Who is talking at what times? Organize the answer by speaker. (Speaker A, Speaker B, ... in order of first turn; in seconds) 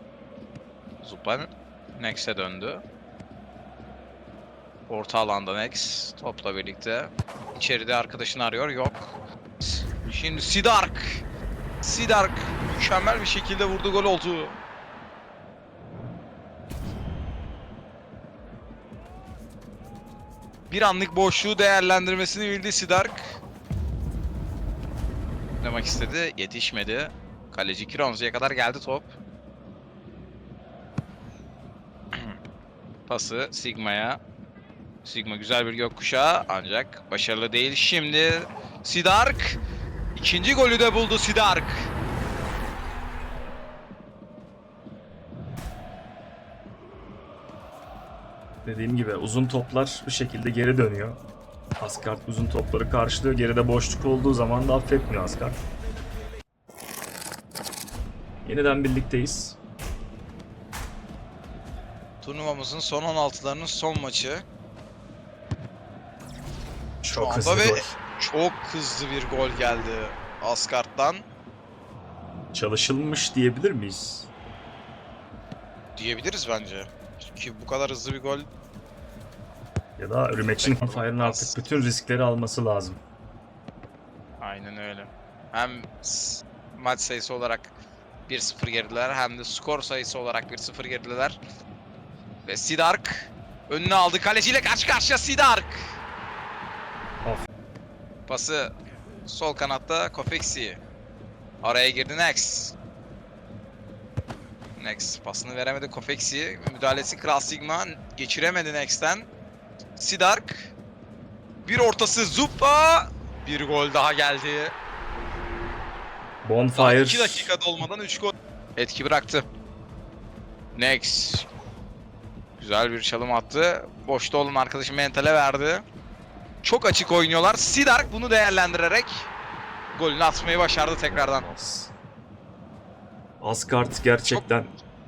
Speaker A: 1.0-2.8, 4.9-11.2, 11.8-14.6, 20.7-23.4, 25.6-29.1, 33.1-34.2, 35.0-39.6, 40.1-41.9, 62.2-64.4, 67.1-71.2, 76.0-78.5, 80.6-81.6, 84.4-87.7, 88.3-91.4, 92.4-95.9, 98.3-98.7, 99.2-100.8, 101.6-102.7, 104.8-109.3, 110.0-110.7, 111.6-114.7, 116.8-119.4, 120.7-121.5, 122.6-125.8, 126.6-129.3, 129.9-131.5, 134.3-134.6
Speaker B: 48.6-51.2, 51.8-55.6, 58.4-59.6, 67.0-67.9, 72.5-74.3, 80.0-83.0, 116.4-117.5, 131.0-131.9, 133.4-134.7